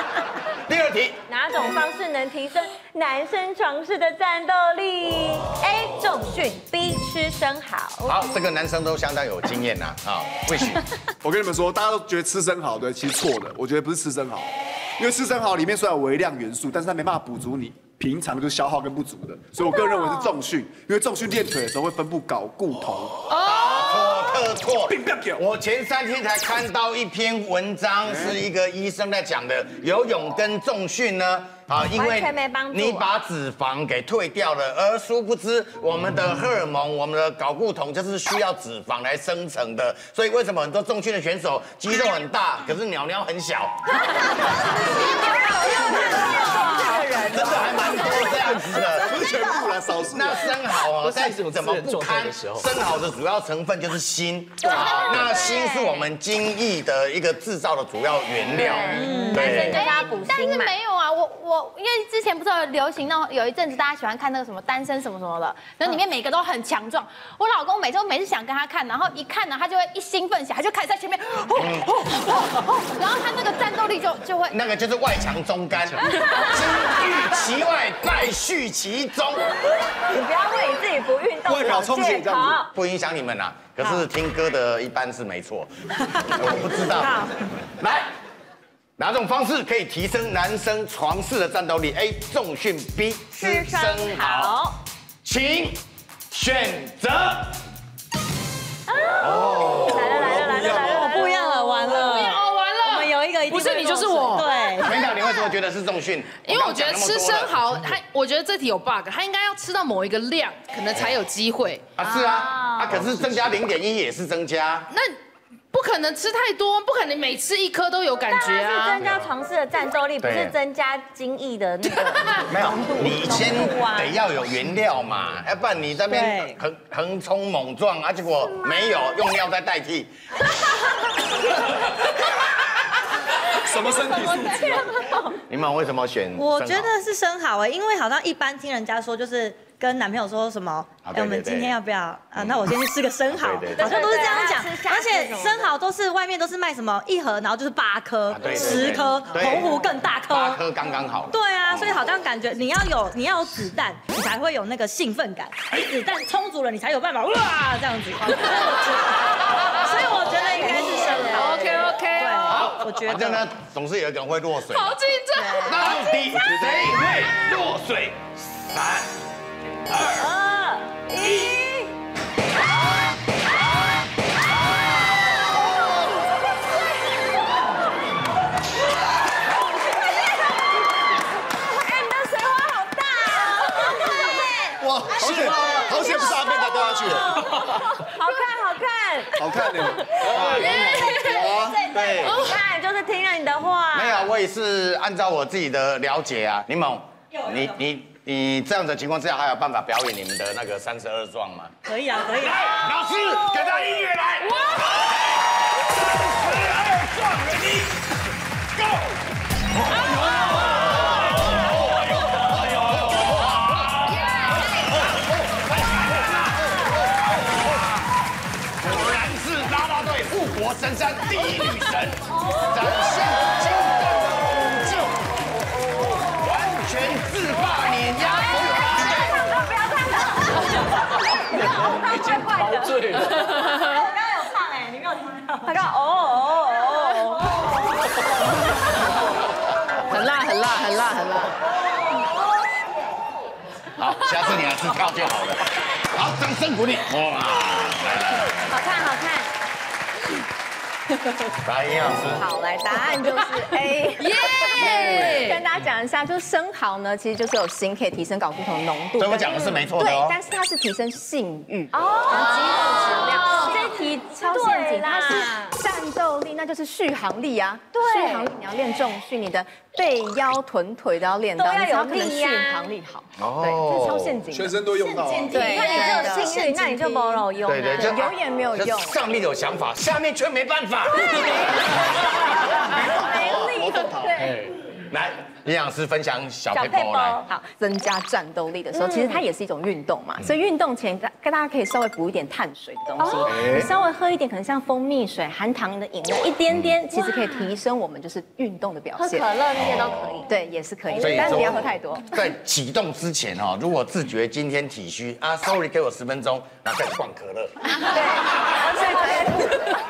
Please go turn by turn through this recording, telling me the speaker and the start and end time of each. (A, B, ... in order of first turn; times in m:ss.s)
0:00.7-0:01.2 A
0:01.3-0:08.2 B
0:08.0-0:10.8 A
0:11.2-0:23.2 C
0:23.4-0:44.7 A
0:24.9-0:25.4 C
0:28.1-0:28.4 C
0:31.9-0:33.0 B
0:44.2-0:48.4 B
0:47.1-0:59.8 A
0:48.3-0:50.5 C
0:54.6-0:56.1 B
0:58.6-1:00.8 B
0:58.6-1:14.6 D
0:59.0-0:59.5 E
1:11.6-1:11.9 A
1:14.5-1:19.4 A
1:16.2-1:16.6 B
1:20.1-1:22.7 B
1:21.4-1:22.6 C
1:22.7-1:25.7 A
1:26.3-1:27.1 A
1:27.0-1:27.3 E
1:27.8-1:28.1 A
1:29.0-1:34.6 A
1:33.3-1:34.8 B
1:35.2-1:35.8 A
1:36.3-1:37.6 A
1:38.9-1:42.2 B
1:39.2-1:40.8 A
1:39.5-1:41.1 C
1:40.9-1:45.0 E
1:41.9-1:44.4 F
1:44.4-1:45.1 B
1:44.8-1:47.8 A
1:46.4-1:51.9 F
1:52.0-1:54.9 A
1:52.0-1:53.0 B
1:54.9-1:55.2 F
1:55.7-1:59.0 F
1:58.3-2:04.2 B
2:00.2-2:00.6 A
2:02.5-2:10.1 A
2:06.1-2:06.6 E
2:13.6-2:14.9 C
2:13.9-2:15.3 B
2:15.3-2:16.9 A
2:16.4-2:30.6 E
2:21.0-2:21.7 A
2:22.4-2:22.7 A
2:23.3-2:24.1 A
2:23.7-2:25.7 B
2:28.3-2:29.8 A
2:28.5-2:29.8 B
2:30.3-2:32.0 A
2:31.3-2:43.4 E
2:40.6-2:41.5 B
2:41.4-2:42.7 F
2:42.4-2:45.0 A
2:44.7-2:45.9 F
2:45.3-2:45.8 E
2:45.5-2:49.1 A
2:45.9-2:46.8 B
2:49.9-2:50.3 A
2:50.1-2:51.9 B
2:59.4-3:00.8 B
3:01.6-3:14.3 B
3:04.8-3:08.0 C
3:09.4-3:11.8 C
3:10.2-3:11.3 A
3:10.6-3:11.3 F
3:11.9-3:12.5 A
3:12.3-3:12.6 F
3:13.9-3:21.8 A
3:21.9-3:22.9 E
3:22.4-3:28.0 A
3:28.8-3:29.1 A
3:29.8-3:37.8 A
3:38.8-3:45.2 A
3:42.4-3:42.9 B
3:46.2-3:49.4 A
3:48.3-3:54.7 B
3:53.9-3:55.6 E
3:55.4-3:57.8 B
4:00.1-4:01.6 F
4:04.0-4:08.7 A
4:08.7-4:09.5 B
4:11.6-4:12.5 A
4:12.4-4:34.8 G
4:14.2-4:15.6 F
4:19.2-4:20.4 A
4:21.9-4:25.7 B
4:27.9-4:28.5 B
4:31.6-4:32.9 B
4:33.4-4:34.4 A
4:34.5-4:35.8 C
4:35.1-4:38.3 B
4:35.5-4:39.2 G
4:35.6-4:36.2 D
4:37.6-4:42.1 A
4:42.9-4:44.6 G
4:43.1-4:44.5 C
4:45.1-4:47.4 A
4:46.7-4:47.4 B
4:47.4-4:59.5 G
4:48.9-4:49.4 B
4:53.2-4:53.8 B
4:57.1-4:57.8 B
4:59.2-5:00.5 B
4:59.8-5:00.3 A
5:00.4-5:02.3 G
5:01.1-5:01.8 B
5:01.2-5:07.8 A
5:07.9-5:09.9 G